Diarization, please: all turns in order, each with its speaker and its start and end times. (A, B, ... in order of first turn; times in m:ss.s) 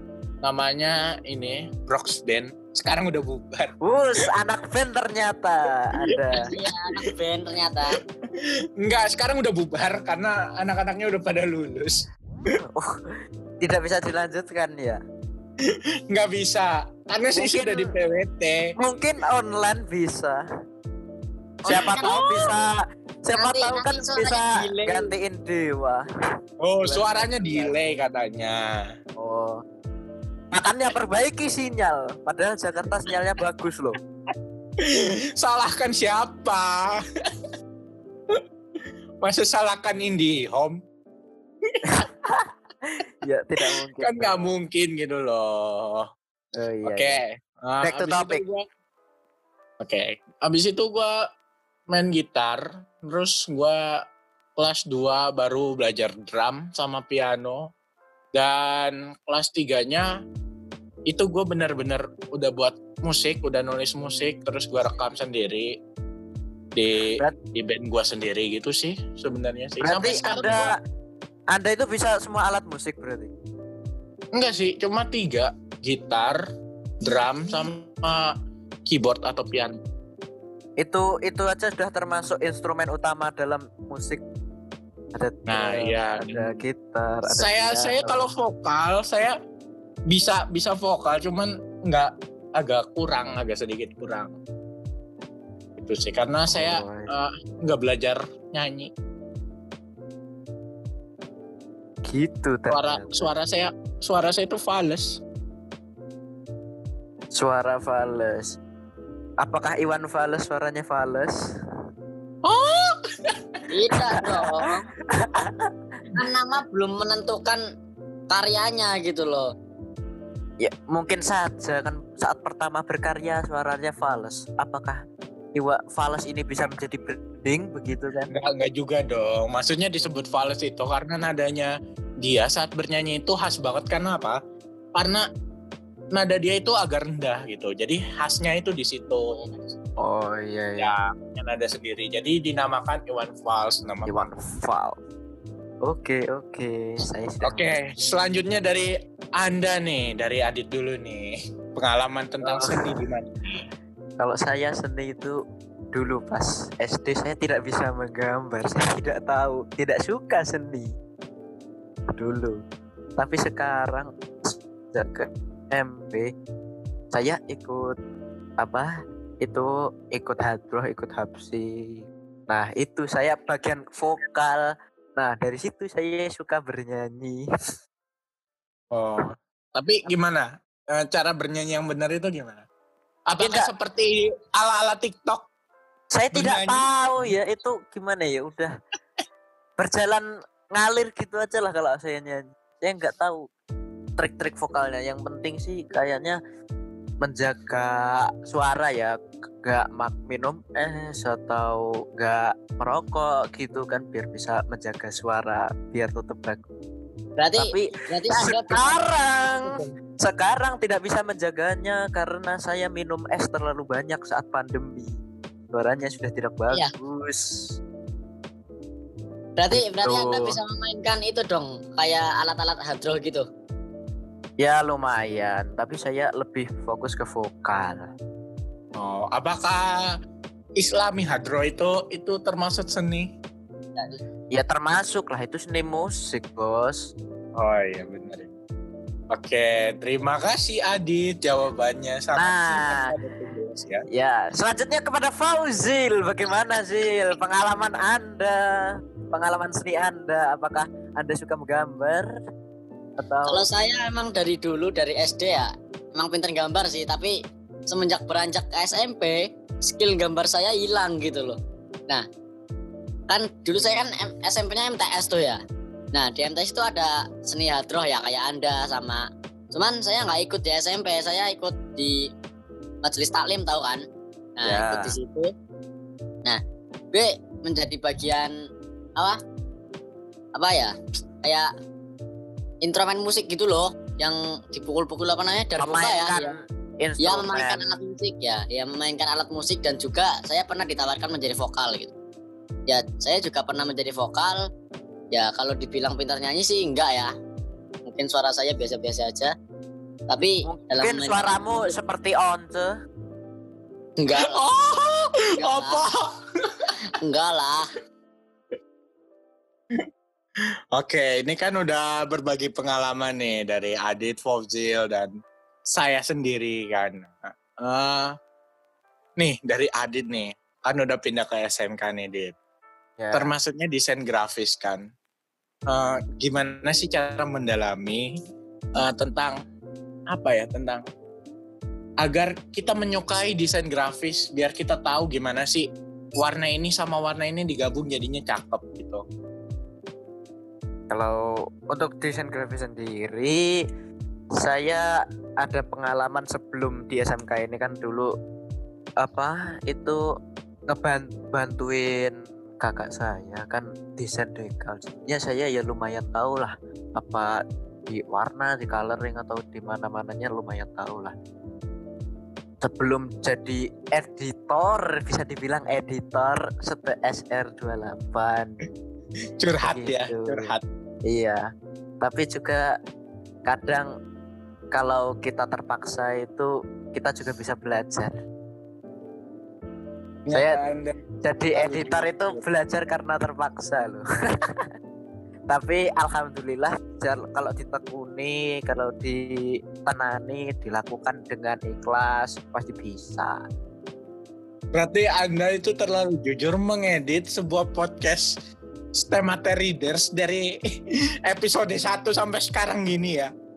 0:00.4-0:03.7 A
0:03.8-0:06.4 B
0:05.9-0:06.9 A
0:06.4-0:08.0 C
0:08.8-0:12.0 A
0:12.6-0:13.0 B
0:13.6-0:15.0 B
0:16.1-0:18.7 A
0:17.3-0:17.9 B
0:18.8-0:20.4 B
0:21.7-0:22.7 B
0:21.7-0:22.5 C
0:21.7-0:22.0 A
0:23.2-0:26.0 B
0:23.4-0:25.1 C
0:26.6-0:28.6 A
0:26.8-0:27.9 B
0:29.2-0:29.6 B
0:30.5-0:34.0 B
0:34.8-0:37.0 A
0:39.2-0:40.8 A
0:41.9-0:44.5 B
0:44.0-0:46.0 A
0:46.6-0:47.2 B
0:46.8-0:48.6 A
0:47.8-0:48.4 B
0:49.8-0:51.1 A
0:51.9-0:53.8 A
0:54.6-0:57.6 A
0:58.3-1:00.0 A
1:01.1-1:05.7 A
1:06.7-1:10.7 A
1:09.8-1:10.7 B
1:11.5-1:13.3 B
1:14.3-1:16.4 A
1:17.0-1:18.3 A
1:18.9-1:19.8 A
1:20.8-1:24.2 B
1:25.1-1:28.2 B
1:25.5-1:26.6 A
1:27.3-1:29.3 A
1:30.1-1:34.4 A
1:35.8-1:38.9 A
1:36.5-1:37.1 B
1:42.0-1:43.3 B
1:42.7-1:45.2 A
1:47.3-1:48.6 B
1:49.4-1:51.3 B
1:52.4-1:53.3 A
1:53.7-1:54.8 C
1:53.9-1:55.7 B
1:56.2-1:57.6 C
1:58.3-1:59.5 C
2:00.6-2:05.0 B
2:05.5-2:08.3 B
2:08.3-2:11.7 A
2:12.2-2:14.4 A
2:15.0-2:15.2 A
2:16.1-2:19.8 A
2:20.0-2:20.9 B
2:20.8-2:24.3 A
2:24.0-2:25.0 B
2:25.8-2:27.6 B
2:27.4-2:33.6 A
2:32.4-2:32.9 B
2:34.2-2:35.3 B
2:35.9-2:40.9 B
2:42.2-2:42.6 B
2:43.2-2:46.3 B
2:47.1-2:48.0 B
2:48.6-2:52.0 B
2:52.5-2:54.6 B
2:55.2-2:57.4 B
2:58.9-3:02.6 A
3:03.3-3:05.4 A
3:03.4-3:03.7 B
3:06.1-3:08.7 B
3:06.3-3:07.3 A
3:09.8-3:13.4 B
3:14.2-3:16.4 B
3:17.2-3:26.6 B
3:27.4-3:29.0 C
3:27.6-3:35.2 B
3:35.7-3:37.8 B
3:39.6-3:43.4 C
3:39.7-3:40.6 B
3:44.6-3:48.1 B
3:49.0-3:49.9 A
3:50.8-3:53.3 A
3:54.5-3:57.1 B
3:57.6-3:58.5 A
3:59.3-4:04.0 A
4:02.4-4:03.1 B
4:04.1-4:12.3 B
4:13.2-4:13.6 B
4:13.5-4:17.3 C
4:17.9-4:21.6 C
4:23.3-4:25.6 C
4:26.1-4:32.2 C
4:33.0-4:34.0 C
4:34.6-4:35.5 C
4:34.6-4:35.1 B
4:37.1-4:38.5 C
4:40.6-4:41.7 C
4:42.8-4:46.5 C
4:45.8-4:47.8 B
4:47.2-4:52.1 C
4:52.9-4:54.6 C
4:55.3-4:57.3 C
4:58.0-4:59.5 C
5:00.3-5:01.9 C
5:00.6-5:02.9 B
5:04.2-5:04.6 C
5:04.3-5:06.2 A
5:05.6-5:06.0 C
5:07.2-5:07.8 C
5:10.9-5:15.3 A
5:15.9-5:18.3 A
5:19.4-5:22.5 A
5:23.2-5:23.5 B
5:23.3-5:25.0 A
5:25.9-5:28.2 A
5:29.0-5:29.6 A
5:30.3-5:31.0 A
5:32.2-5:39.2 A
5:41.1-5:43.7 B
5:44.6-5:45.0 B
5:45.6-5:48.3 B
5:49.2-5:50.2 B
5:50.9-5:57.5 B
5:58.1-6:01.3 B
6:02.8-6:08.8 B
6:09.6-6:10.8 A
6:09.8-6:10.7 B
6:11.3-6:11.6 B
6:12.2-6:12.9 B
6:13.6-6:14.1 B
6:14.9-6:18.3 B
6:20.5-6:21.2 A
6:20.5-6:20.8 B
6:21.4-6:24.2 B
6:21.7-6:22.6 A
6:25.7-6:29.4 B
6:30.0-6:33.6 B
6:34.9-6:38.5 A
6:39.2-6:40.7 A
6:41.4-6:43.5 A